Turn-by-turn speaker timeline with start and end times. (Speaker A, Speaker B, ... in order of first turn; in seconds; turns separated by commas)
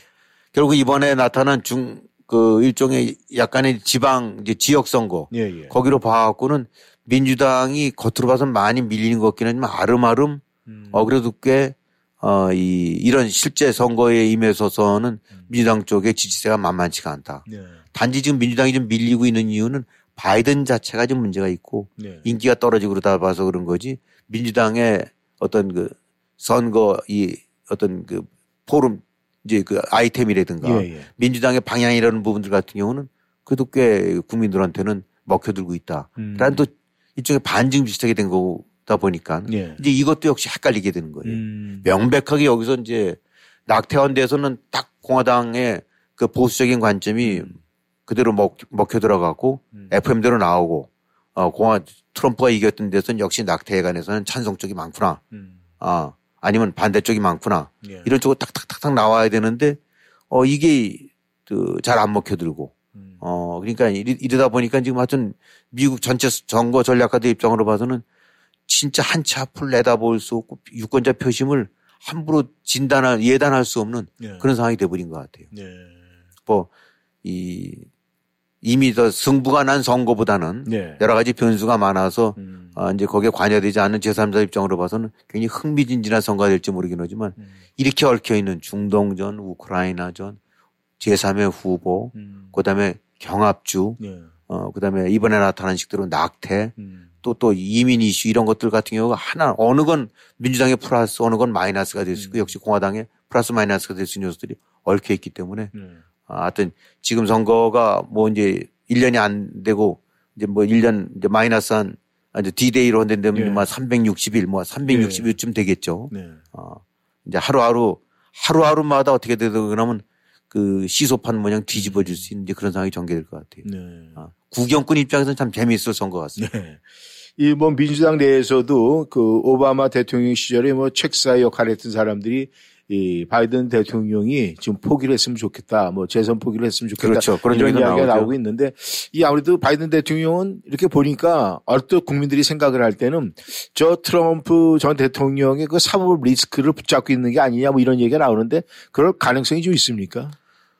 Speaker A: 0.5-55.2, Speaker B: 5.3-5.8, Speaker B: 10.7-11.1, Speaker B: 17.5-17.8, Speaker B: 22.0-22.3, Speaker B: 30.6-31.1, Speaker B: 36.2-36.7, Speaker B: 39.5-39.8, Speaker B: 41.2-41.9, Speaker B: 47.2-47.6, Speaker B: 55.3-55.6, Speaker A: 55.8-59.8, Speaker B: 57.8-58.1, Speaker A: 60.3-68.0, Speaker B: 62.9-63.2, Speaker A: 68.7-75.5, Speaker B: 74.2-74.5, Speaker B: 75.5-76.2, Speaker A: 77.2-77.9, Speaker A: 78.6-90.4, Speaker B: 80.7-81.0, Speaker B: 82.4-82.8, Speaker A: 91.0-105.7, Speaker B: 92.1-92.6, Speaker B: 94.0-94.3, Speaker B: 96.8-97.2, Speaker B: 102.1-102.6, Speaker B: 105.7-106.0, Speaker A: 106.3-123.7, Speaker B: 113.3-113.7, Speaker B: 114.9-115.4, Speaker B: 116.1-116.4, Speaker B: 121.7-122.3, Speaker B: 123.6-124.2, Speaker A: 124.2-126.5, Speaker B: 126.4-126.8, Speaker B: 127.4-150.4, Speaker A: 137.0-138.3